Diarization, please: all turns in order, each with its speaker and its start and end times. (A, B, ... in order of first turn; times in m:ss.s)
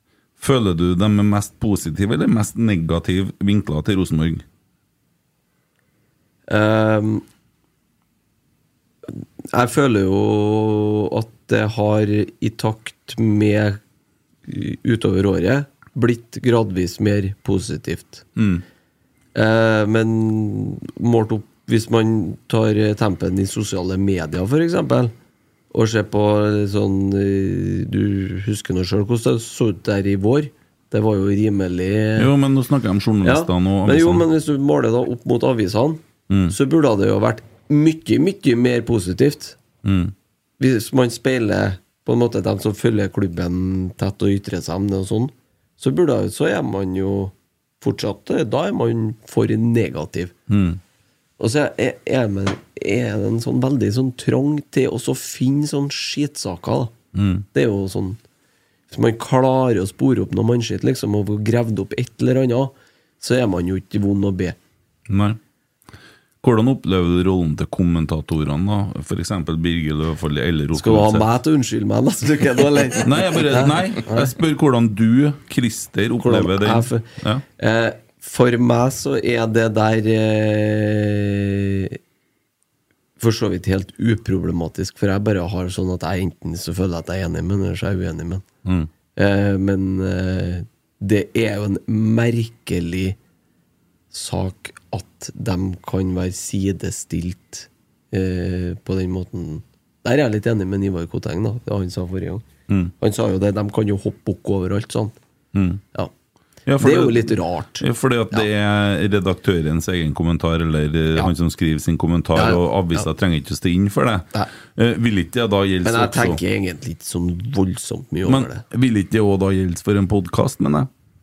0:00.4-0:04.4 A
0:06.5-0:07.2 B
0:09.1-0:13.8 B
0:14.5-0:18.2 B
0:18.4-0:18.6 A
0:19.3-0:25.1 B
0:25.7-0:32.3 B
0:32.2-0:34.2 A
0:33.2-0:39.6 B
0:36.3-0:36.6 A
0:39.8-0:40.1 A
0:40.6-0:50.3 B
0:50.5-0:50.8 A
0:51.4-0:56.9 B
0:57.1-0:57.4 A
0:57.5-0:58.2 B
0:58.9-1:04.6 B
1:05.1-1:05.4 A
1:06.4-1:11.3 A
1:10.7-1:14.3 B
1:13.0-1:17.4 A
1:16.2-1:22.0 B
1:23.2-1:28.4 B
1:28.6-1:28.9 A
1:29.2-1:33.2 B
1:34.1-1:42.4 B
1:43.0-1:45.1 B
1:45.5-1:45.8 A
1:46.7-1:56.4 A
1:46.8-1:48.4 B
1:52.3-1:53.1 B
1:55.8-1:58.6 B
1:58.2-2:00.9 A